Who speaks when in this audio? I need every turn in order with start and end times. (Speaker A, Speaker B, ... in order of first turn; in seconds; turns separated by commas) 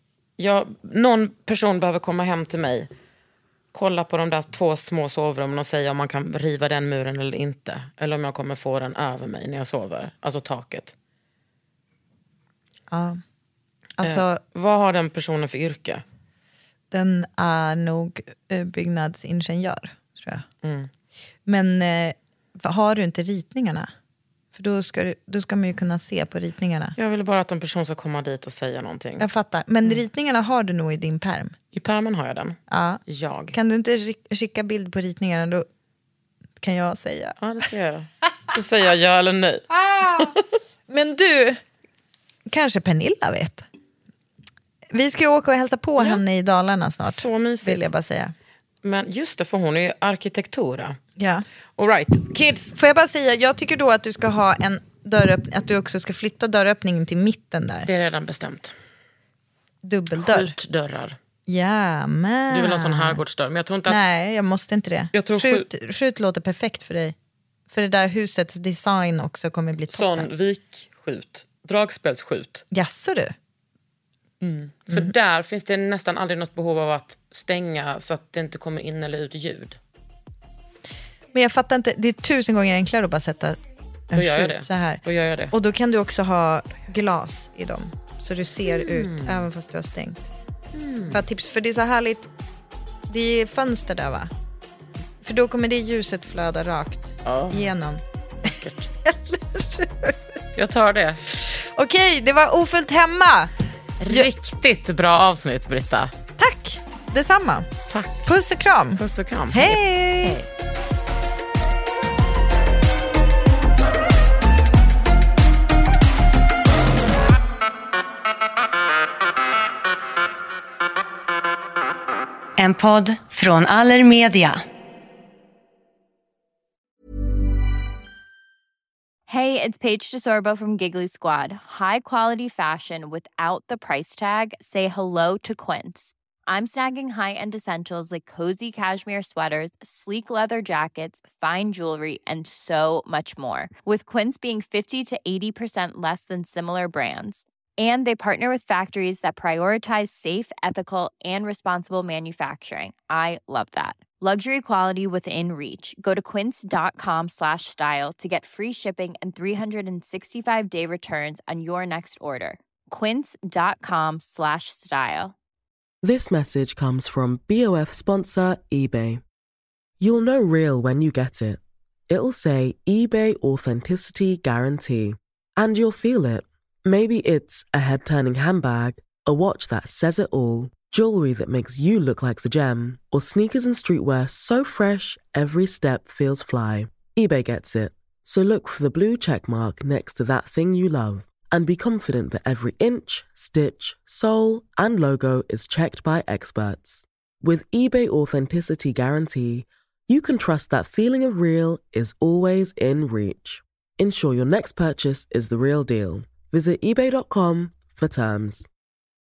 Speaker A: 0.4-2.9, Speaker A: 3.7-10.9, Speaker B: 12.9-13.2, Speaker B: 14.0-14.4, Speaker A: 14.0-16.0, Speaker B: 16.9-20.4, Speaker A: 20.6-20.9, Speaker B: 21.5-23.9, Speaker B: 24.5-26.9, Speaker A: 27.0-29.3, Speaker B: 29.2-31.5, Speaker A: 31.7-33.6, Speaker B: 32.7-33.0, Speaker B: 33.5-35.7, Speaker B: 36.6-37.4, Speaker A: 37.4-40.3, Speaker B: 39.7-40.4, Speaker B: 40.9-41.6, Speaker B: 42.5-43.7, Speaker B: 44.9-48.3, Speaker A: 46.0-46.2, Speaker A: 47.0-47.9, Speaker A: 48.8-51.0, Speaker B: 51.2-51.5, Speaker A: 51.8-52.8, Speaker B: 52.8-57.9, Speaker A: 57.9-58.8, Speaker B: 59.8-60.5, Speaker A: 60.1-61.2, Speaker B: 61.5-63.2, Speaker A: 62.5-64.0, Speaker B: 63.9-67.1, Speaker A: 65.1-65.7, Speaker B: 67.7-70.3, Speaker A: 69.9-72.6, Speaker B: 72.7-73.3, Speaker A: 74.4-79.8, Speaker B: 81.3-83.6, Speaker B: 84.1-90.3, Speaker A: 84.1-85.5, Speaker A: 88.8-89.5, Speaker A: 90.7-91.2, Speaker B: 91.1-92.3, Speaker B: 93.1-94.3, Speaker B: 95.2-98.5, Speaker A: 97.2-97.7, Speaker A: 98.4-98.9, Speaker B: 99.0-100.2, Speaker A: 100.6-101.2, Speaker B: 101.5-104.3, Speaker A: 104.1-106.1, Speaker B: 106.4-107.7, Speaker A: 107.9-108.3, Speaker B: 108.3-110.4, Speaker A: 109.0-110.4, Speaker C: 122.6-124.6, Speaker D: 129.3-165.3, Speaker E: 166.0-169.2, Speaker E: 170.0-208.7